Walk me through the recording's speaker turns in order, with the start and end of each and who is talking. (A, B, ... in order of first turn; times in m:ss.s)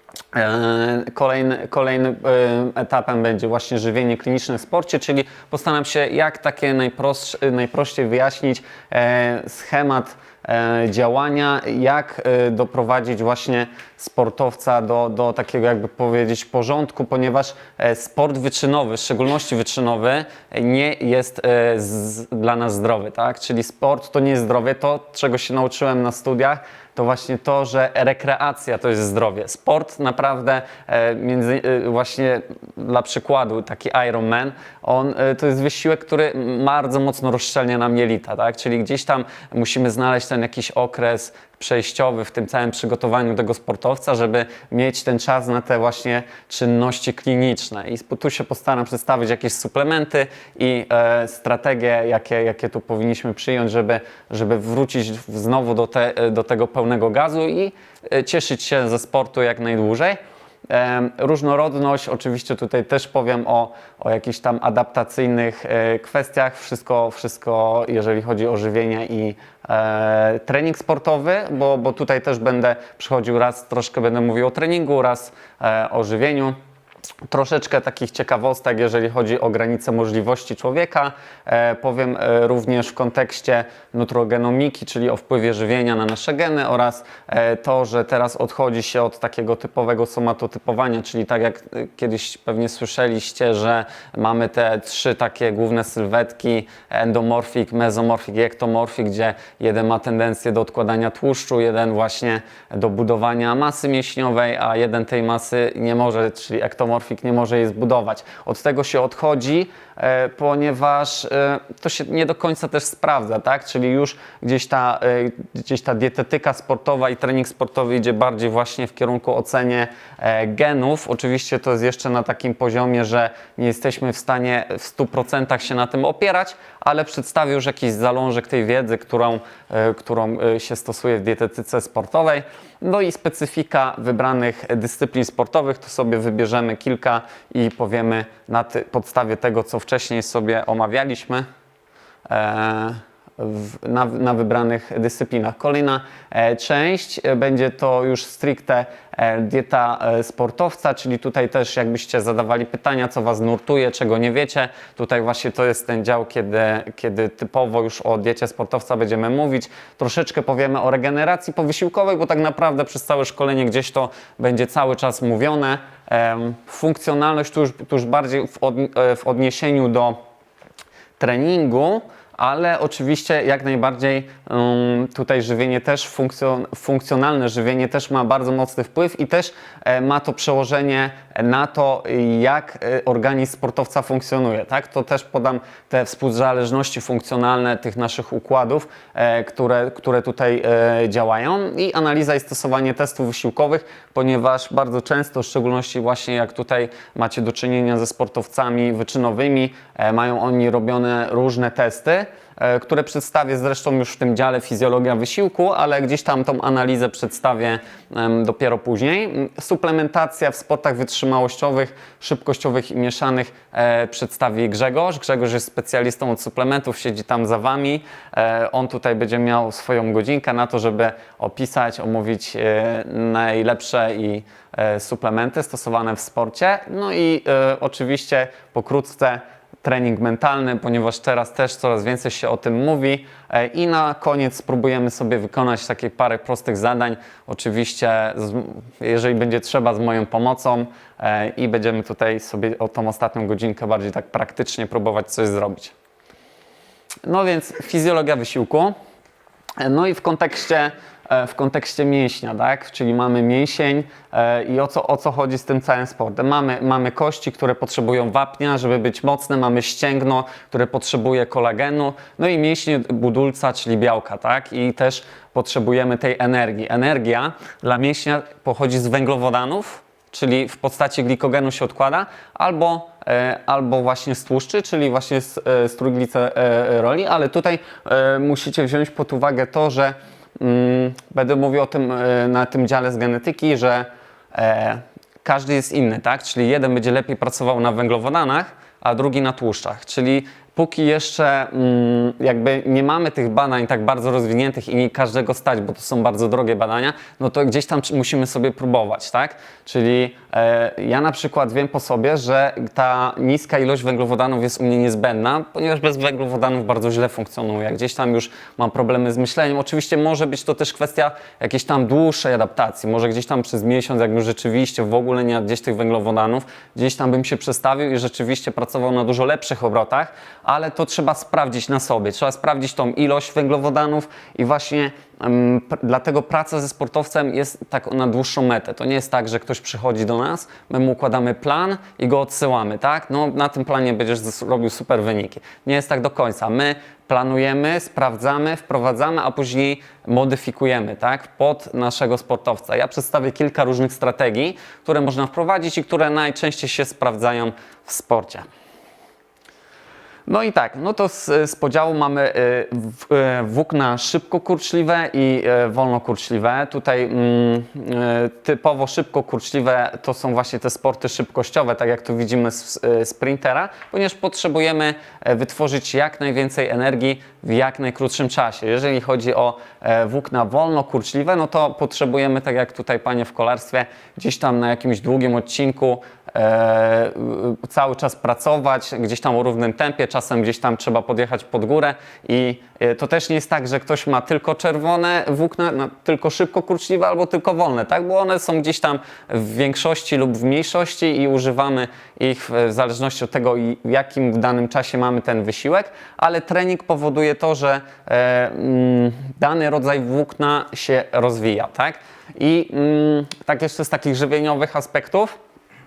0:00.3-1:00.2 A
1:00.7-1:16.6 A
1:17.3-2:21.5 A
2:22.3-2:50.2 A
2:51.2-4:05.9 A
4:07.2-4:08.9 A
4:09.8-5:48.7 A
5:50.5-6:45.5 A